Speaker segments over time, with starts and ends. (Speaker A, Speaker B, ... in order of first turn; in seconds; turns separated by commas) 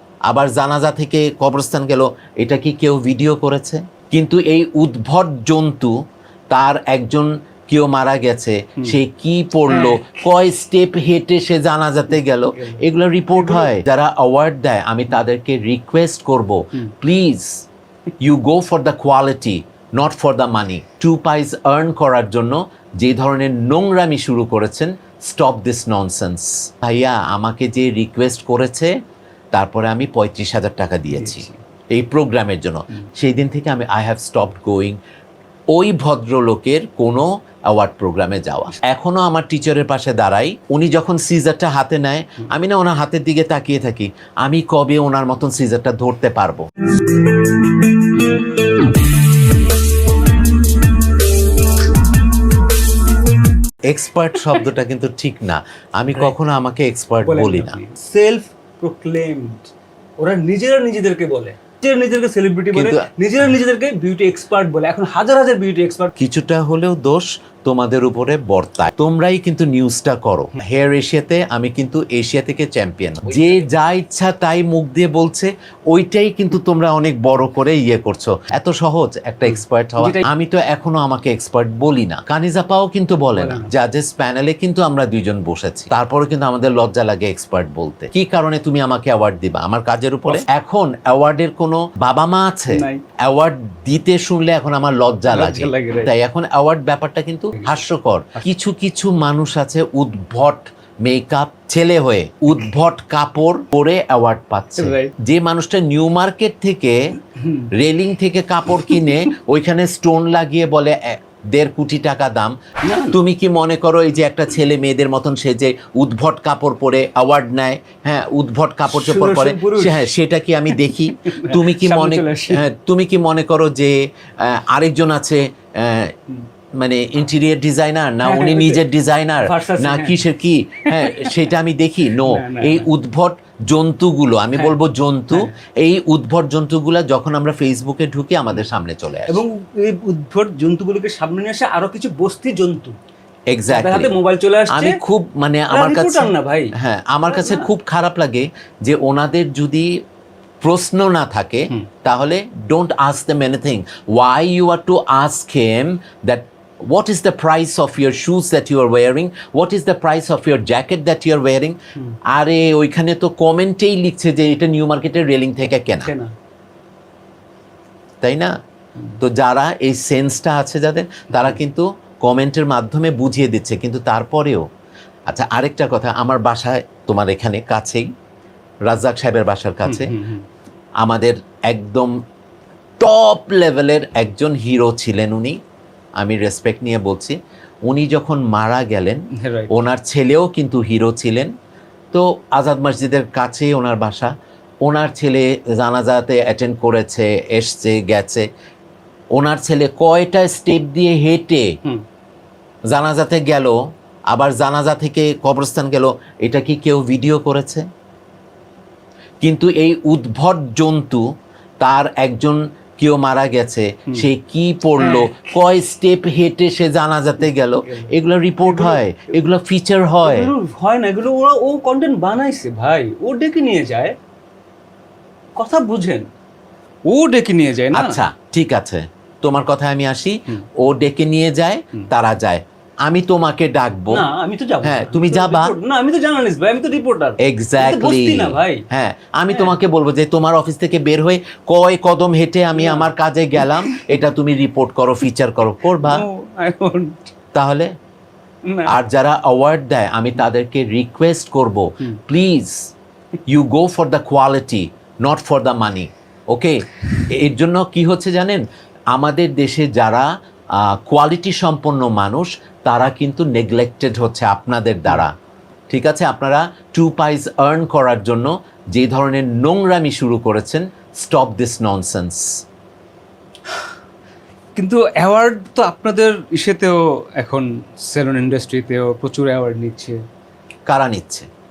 Speaker A: 0.3-5.9, Speaker A: 6.5-17.6, Speaker B: 9.7-10.0, Speaker B: 12.5-12.8, Speaker B: 13.3-13.7, Speaker A: 18.2-28.9, Speaker A: 29.5-35.0, Speaker B: 31.1-31.6, Speaker A: 35.7-46.6, Speaker A: 53.9-57.8, Speaker B: 57.2-66.1, Speaker A: 62.7-63.1, Speaker A: 66.2-107.1, Speaker B: 73.2-73.7, Speaker B: 79.5-80.3, Speaker B: 83.3-83.7, Speaker B: 92.7-93.0, Speaker B: 95.3-96.1, Speaker B: 97.5-97.8, Speaker B: 104.8-105.1, Speaker B: 107.3-107.7, Speaker A: 107.7-126.2, Speaker B: 108.9-109.2, Speaker B: 112.8-113.2, Speaker B: 118.9-120.1, Speaker B: 120.7-122.6, Speaker A: 126.8-139.4, Speaker B: 128.2-128.8, Speaker B: 129.4-130.3, Speaker B: 130.9-131.4, Speaker B: 132.1-132.9, Speaker B: 139.3-142.9, Speaker A: 143.5-144.1, Speaker B: 143.7-145.0, Speaker A: 144.7-149.9, Speaker B: 145.7-146.7, Speaker B: 147.3-147.7, Speaker A: 150.6-161.8, Speaker A: 162.3-166.1, Speaker B: 165.9-166.3, Speaker A: 168.2-168.5, Speaker A: 169.2-174.6, Speaker A: 175.3-178.1, Speaker A: 178.8-180.1, Speaker B: 179.8-180.5, Speaker A: 181.0-182.2, Speaker A: 183.0-185.6, Speaker A: 186.2-191.5, Speaker B: 189.3-189.7, Speaker A: 192.1-194.3, Speaker A: 194.8-198.4, Speaker A: 199.3-201.8, Speaker A: 202.9-203.8, Speaker A: 204.3-207.8, Speaker A: 209.4-211.2, Speaker A: 211.8-220.5, Speaker B: 215.0-215.3, Speaker B: 217.8-218.1, Speaker B: 218.6-219.0, Speaker B: 220.2-224.2, Speaker B: 225.6-226.3, Speaker B: 227.1-228.2, Speaker A: 227.9-234.2, Speaker B: 234.1-238.8, Speaker A: 234.8-235.7, Speaker A: 237.4-246.2, Speaker B: 239.5-239.7, Speaker B: 242.7-244.0, Speaker B: 245.9-247.3, Speaker A: 247.5-247.9, Speaker B: 248.7-249.0, Speaker A: 248.9-252.9, Speaker A: 253.5-265.3, Speaker A: 265.9-272.5, Speaker B: 274.8-280.2, Speaker A: 280.9-281.5